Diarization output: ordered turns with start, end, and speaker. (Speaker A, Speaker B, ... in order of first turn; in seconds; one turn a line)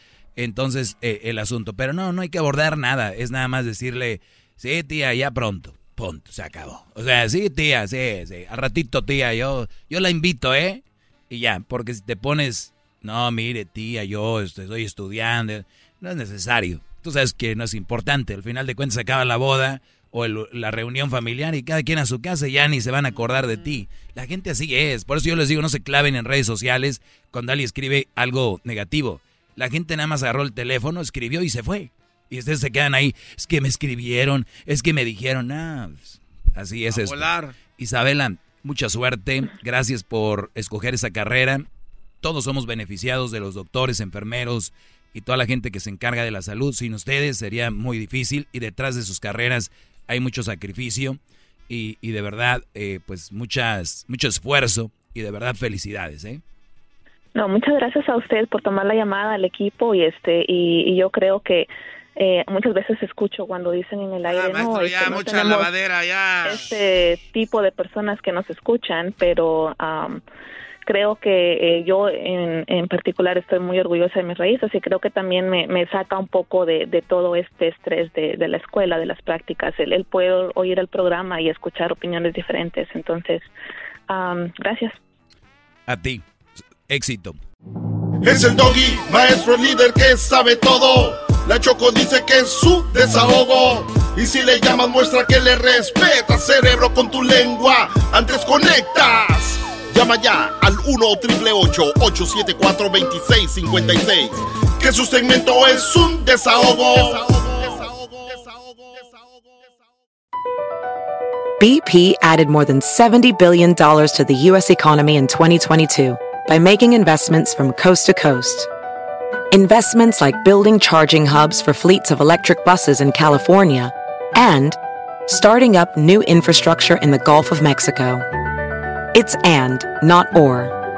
Speaker A: 0.4-41.7
Speaker B: 36.9-37.6
Speaker A: 42.2-56.4
Speaker C: 57.4-65.7
Speaker B: 64.3-66.8
Speaker C: 66.4-70.2
Speaker C: 70.9-83.5
Speaker C: 84.1-85.0
Speaker A: 85.9-86.2
Speaker A: 86.9-87.4
Speaker D: 88.2-109.1
Speaker E: 111.6-118.7
Speaker E: 119.5-128.2
Speaker E: 129.2-130.7